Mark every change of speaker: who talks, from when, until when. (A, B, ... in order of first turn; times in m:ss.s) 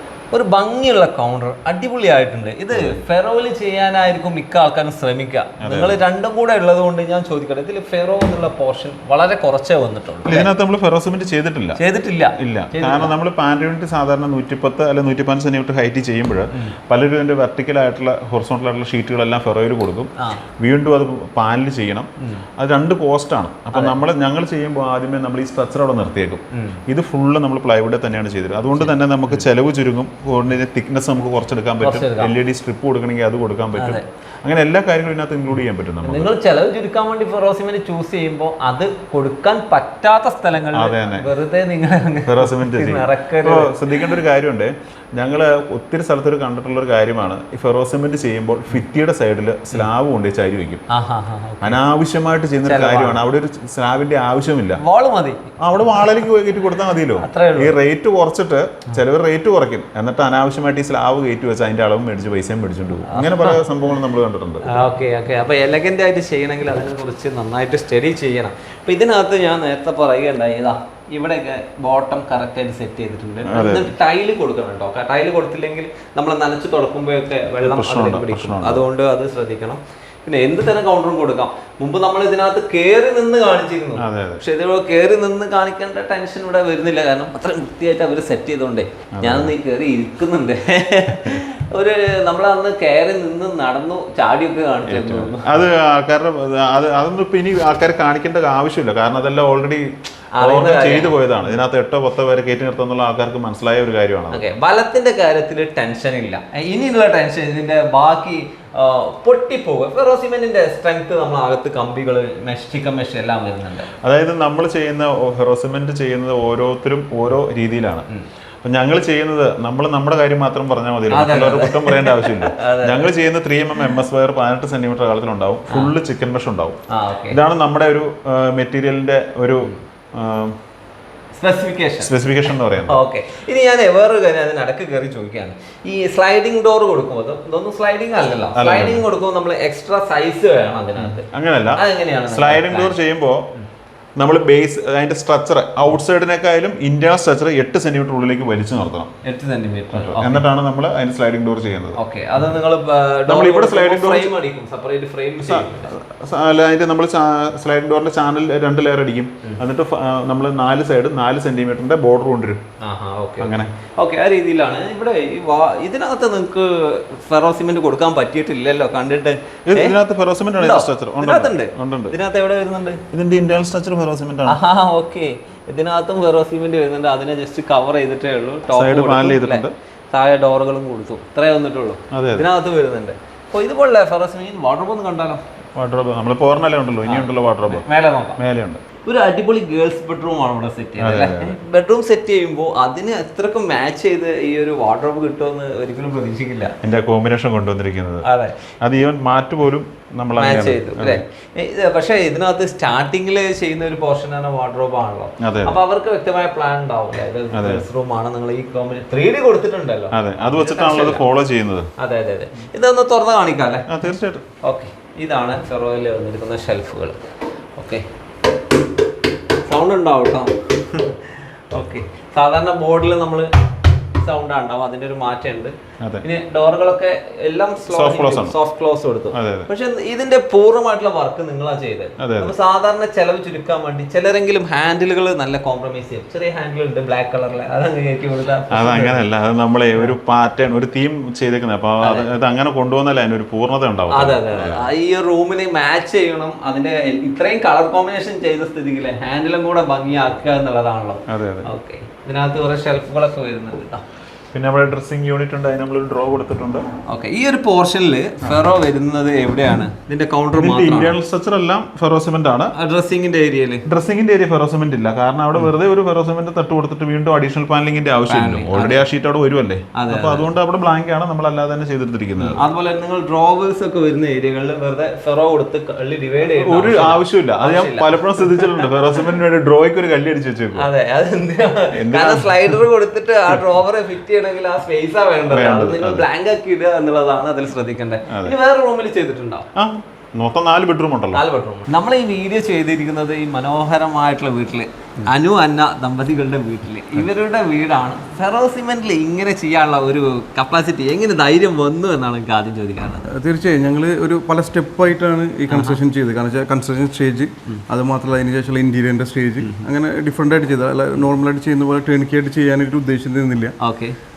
0:00.3-0:10.5 A
0:02.7-0:03.0 B
0:05.6-0:06.0 B
0:10.3-0:11.8 B
0:11.8-0:13.1 A
0:12.4-0:36.3 B
0:22.2-0:22.4 A
0:26.5-0:26.8 A
0:28.8-0:29.4 A
0:31.8-0:32.3 A
0:33.8-0:34.0 A
0:36.0-0:43.8 A
0:40.7-0:41.3 B
0:42.3-0:50.8 B
0:50.9-0:51.8 A
0:51.6-0:54.8 B
0:52.7-0:53.2 A
0:54.8-0:56.0 A
0:55.6-1:04.9 B
0:57.2-0:57.8 A
1:03.1-1:03.6 A
1:04.7-1:35.6 A
1:13.5-1:13.9 B
1:17.6-1:18.8 B
1:24.0-1:24.4 B
1:29.2-1:29.5 B
1:34.9-1:44.4 B
1:40.4-1:41.5 A
1:44.3-1:53.9 A
1:54.0-1:58.1 B
1:58.6-2:06.8 B
2:01.1-2:03.1 A
2:06.9-2:07.4 A
2:07.3-2:10.6 B
2:11.4-2:23.0 A
2:12.0-2:13.0 B
2:18.6-2:19.0 B
2:21.0-2:23.5 B
2:24.2-2:29.1 B
2:29.2-2:30.5 A
2:29.9-2:32.0 B
2:32.0-2:35.9 A
2:33.3-2:34.3 B
2:35.4-2:42.6 B
2:42.8-2:50.0 A
2:43.4-2:43.7 B
2:49.7-2:52.2 B
2:50.6-2:53.0 A
2:53.1-2:54.6 B
2:54.5-3:05.4 A
2:58.7-2:59.7 B
3:02.1-3:02.5 B
3:05.8-3:07.9 B
3:07.0-3:08.4 A
3:08.4-3:08.8 B
3:09.0-3:16.7 A
3:11.0-3:11.6 B
3:16.8-3:18.2 B
3:18.2-3:18.5 A
3:18.8-3:21.2 B
3:20.4-3:31.2 A
3:25.4-3:25.8 B
3:27.5-3:27.8 B
3:30.1-3:31.9 B
3:32.0-3:33.9 A
3:33.9-3:34.4 B
3:34.6-3:37.2 A
3:37.8-3:38.0 A
3:39.7-3:43.5 A
3:44.2-3:59.2 A
3:47.8-3:48.6 B
3:49.3-3:49.7 B
3:52.2-3:52.5 B
3:58.7-4:04.9 B
4:02.0-4:02.3 A
4:04.1-4:14.0 A
4:11.3-4:11.7 B
4:14.5-4:16.9 B
4:17.1-4:21.2 A
4:18.5-4:18.7 B
4:20.6-4:22.7 B
4:22.8-4:23.8 A
4:23.9-4:32.6 B
4:28.3-4:29.0 A
4:30.0-4:30.5 A
4:32.4-4:38.9 A
4:36.6-4:40.9 B
4:40.8-4:49.7 A
4:41.9-4:42.8 B
4:45.5-4:46.3 B
4:48.3-4:48.6 B
4:49.8-4:51.4 B
4:51.3-5:03.3 A
5:03.3-5:13.8 C
5:05.7-5:06.0 A
5:13.8-5:14.2 A